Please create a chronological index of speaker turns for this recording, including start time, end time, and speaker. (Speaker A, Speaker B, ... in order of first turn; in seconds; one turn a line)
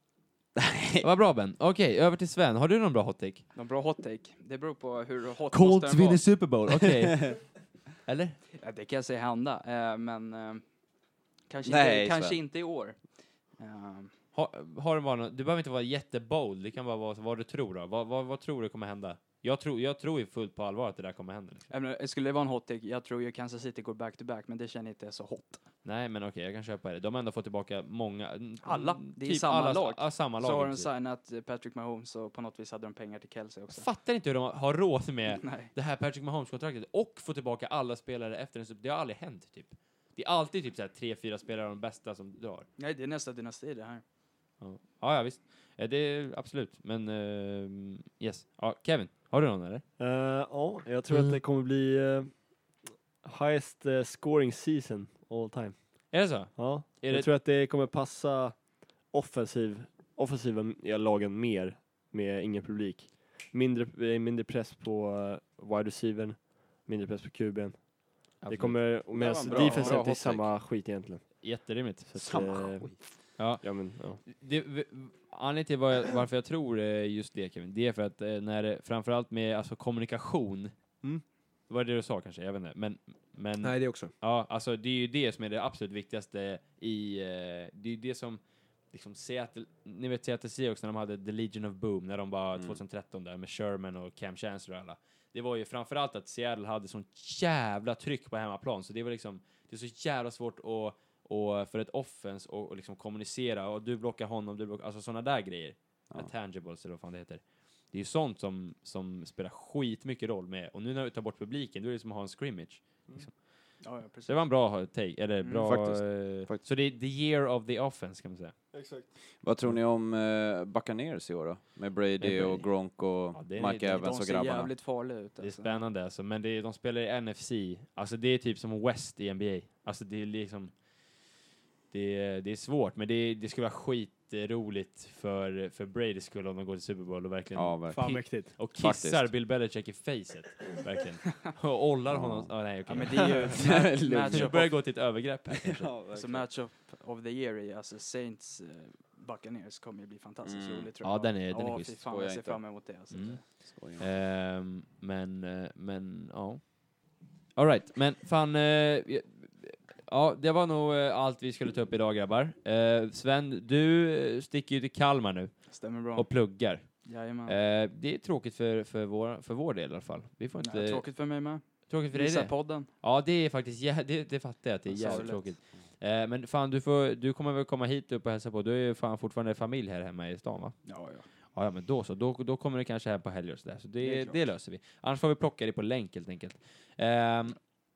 Speaker A: 0.6-1.1
Speaker B: 1.0-3.4
Speaker C: 3.5-6.2
Speaker B: 5.5-7.5
Speaker A: 6.7-7.3
Speaker B: 8.1-8.4
Speaker C: 8.6-10.6
Speaker C: 11.5-13.0
Speaker A: 11.7-12.4
Speaker C: 13.6-14.1
Speaker B: 14.3-21.7
Speaker C: 21.7-25.6
Speaker B: 25.8-30.9
Speaker C: 28.6-33.9
Speaker B: 33.7-42.7
Speaker C: 35.3-35.7
Speaker C: 42.8-44.0
Speaker B: 44.6-49.8
Speaker D: 50.0-74.2
Speaker B: 56.1-57.3
Speaker B: 68.4-69.0
Speaker A: 69.1-70.5
Speaker B: 69.5-70.0
Speaker B: 71.4-72.3
Speaker A: 72.2-73.0
Speaker B: 73.4-80.7
Speaker B: 81.7-88.4
Speaker D: 83.6-84.1
Speaker B: 88.9-118.6
Speaker C: 113.8-114.5
Speaker C: 115.4-115.8
Speaker A: 115.6-116.7
Speaker D: 118.7-119.1
Speaker A: 119.4-124.7
Speaker B: 122.2-124.1
Speaker C: 123.9-125.8
Speaker B: 125.4-130.7
Speaker B: 131.9-145.9
Speaker A: 137.6-139.3
Speaker D: 137.9-138.5
Speaker A: 142.1-144.7
Speaker C: 142.9-144.8
Speaker A: 145.5-146.5
Speaker C: 146.1-153.4
Speaker A: 150.4-150.9
Speaker B: 151.0-152.0
Speaker A: 152.1-152.7
Speaker B: 153.1-156.8
Speaker A: 153.7-154.1
Speaker B: 157.6-171.1
Speaker C: 165.7-167.6
Speaker C: 170.6-172.9
Speaker B: 171.9-180.8
Speaker C: 174.9-175.5
Speaker A: 174.9-175.7
Speaker C: 180.9-181.3
Speaker B: 181.6-187.6
Speaker C: 184.0-184.4